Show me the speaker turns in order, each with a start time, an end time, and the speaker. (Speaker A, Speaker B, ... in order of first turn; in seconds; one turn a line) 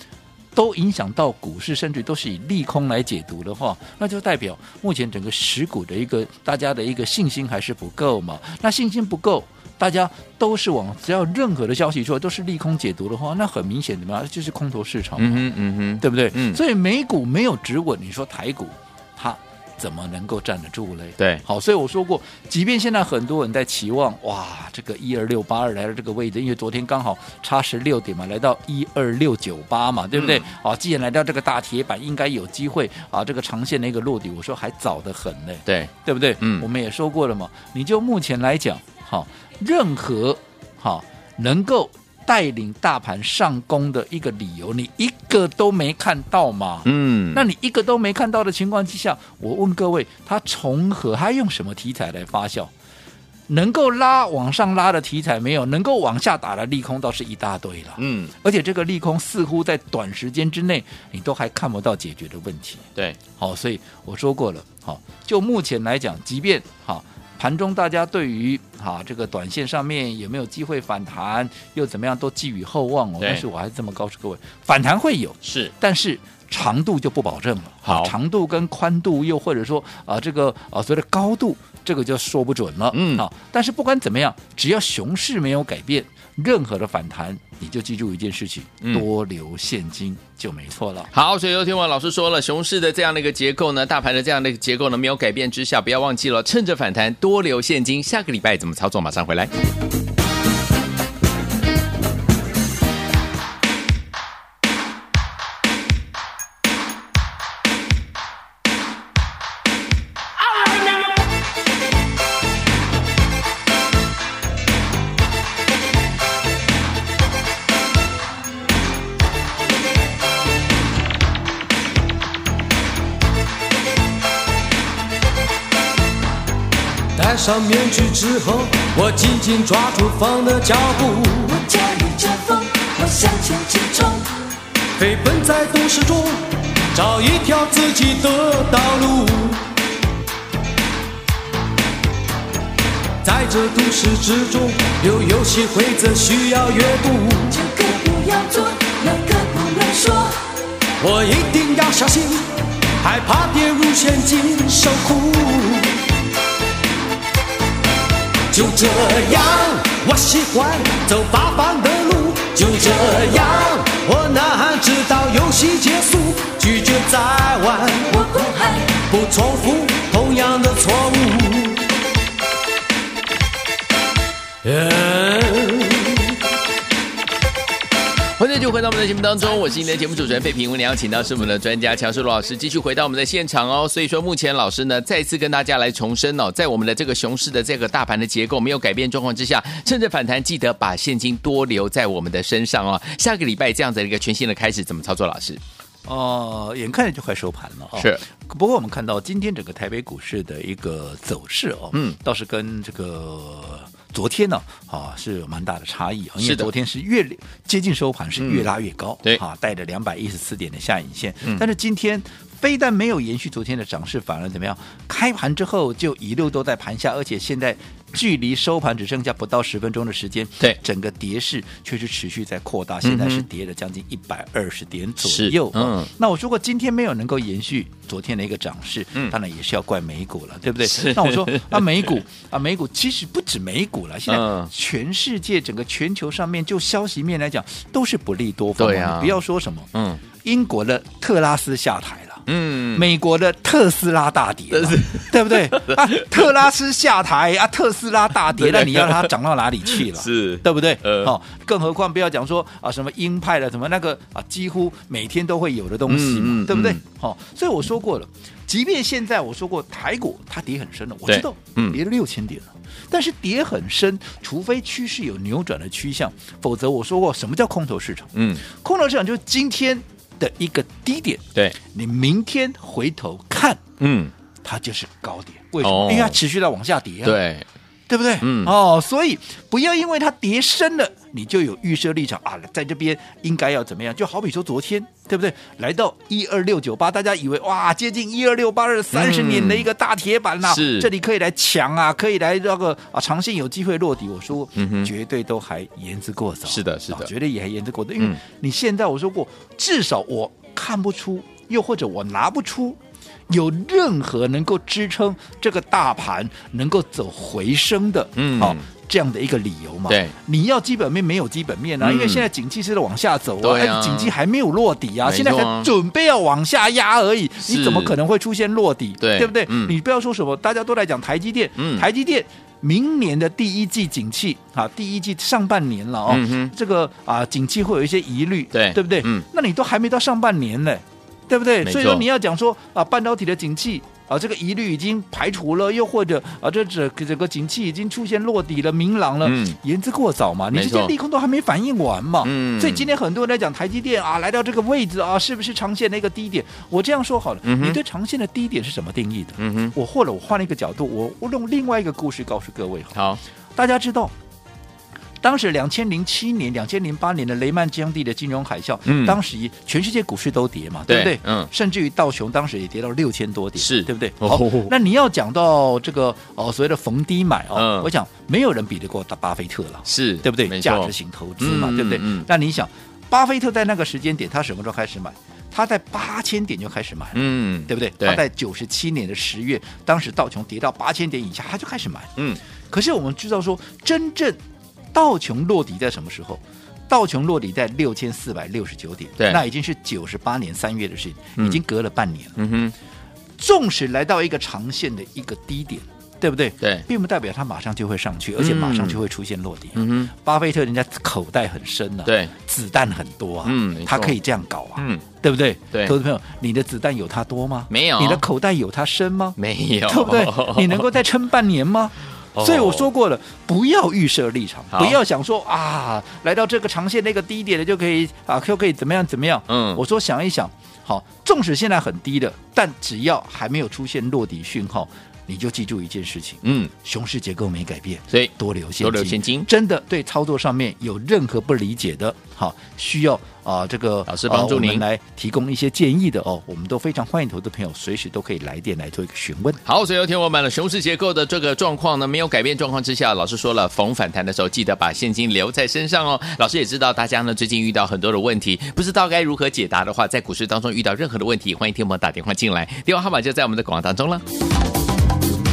Speaker A: 0.5-15.5
Speaker B: 15.2-16.6
Speaker A: 16.0-52.7
Speaker B: 30.1-30.5
Speaker B: 35.6-36.6
Speaker B: 46.8-47.4
Speaker A: 53.5-91.1
Speaker B: 58.0-58.3
Speaker B: 75.4-75.7
Speaker B: 77.8-78.1
Speaker B: 82.9-83.2
Speaker B: 91.1-99.5
Speaker C: 127.2-131.7
Speaker D: 131.5-134.2
Speaker C: 134.9-139.7
Speaker C: 143.2-147.6
Speaker D: 147.5-150.4
Speaker C: 151.0-156.0
Speaker C: 158.5-171.8
Speaker D: 168.1-168.8
Speaker C: 174.6-176.2
Speaker B: 178.3-195.6
Speaker A: 196.1-239.9
Speaker B: 197.9-198.2
Speaker B: 206.4-206.7
Speaker B: 208.4-208.7
Speaker B: 223.0-223.4
Speaker B: 225.2-226.1
Speaker B: 230.8-232.1
Speaker B: 234.3-234.7
Speaker B: 238.8-239.4
Speaker B: 239.9-240.2
Speaker A: 240.4-273.8
Speaker B: 242.5-243.1
Speaker B: 244.7-246.5
Speaker B: 248.5-249.3
Speaker B: 249.9-251.3
Speaker B: 256.1-257.0
Speaker B: 261.3-262.0
Speaker B: 268.3-268.6
Speaker B: 274.0-274.3
Speaker A: 274.6-277.4
Speaker B: 275.8-276.4
Speaker B: 277.2-277.7
Speaker A: 278.1-353.2
Speaker B: 278.4-278.7
Speaker B: 289.1-289.9
Speaker B: 290.6-291.1
Speaker B: 294.8-295.1
Speaker B: 296.7-297.3
Speaker B: 308.4-308.8
Speaker B: 310.1-310.3
Speaker B: 312.0-312.5
Speaker B: 313.6-314.3
Speaker B: 315.2-315.9
Speaker B: 317.6-318.1
Speaker B: 319.2-319.9
Speaker B: 321.8-322.1
Speaker B: 326.3-326.7
Speaker B: 328.7-329.4
Speaker B: 331.8-332.2
Speaker B: 339.4-339.8
Speaker B: 340.7-341.1
Speaker B: 342.4-343.1
Speaker B: 347.6-348.0
Speaker B: 349.6-349.9
Speaker B: 353.1-353.4
Speaker A: 353.8-354.3
Speaker A: 355.4-382.3
Speaker B: 359.1-359.4
Speaker B: 361.1-361.7
Speaker B: 363.8-364.9
Speaker B: 367.7-368.1
Speaker B: 370.1-372.5
Speaker B: 377.3-378.4
Speaker A: 382.9-384.6
Speaker A: 385.1-392.6
Speaker B: 392.6-392.9
Speaker A: 393.6-439.8
Speaker B: 396.8-397.1
Speaker B: 398.6-399.2
Speaker B: 399.9-400.3
Speaker B: 402.2-402.5
Speaker B: 403.6-404.4
Speaker B: 405.0-405.2
Speaker B: 407.9-408.4
Speaker B: 409.6-411.1
Speaker B: 412.5-413.1
Speaker B: 414.9-415.2
Speaker B: 419.7-420.0
Speaker B: 426.6-426.9
Speaker B: 428.3-429.7
Speaker B: 434.3-435.0
Speaker B: 439.9-454.4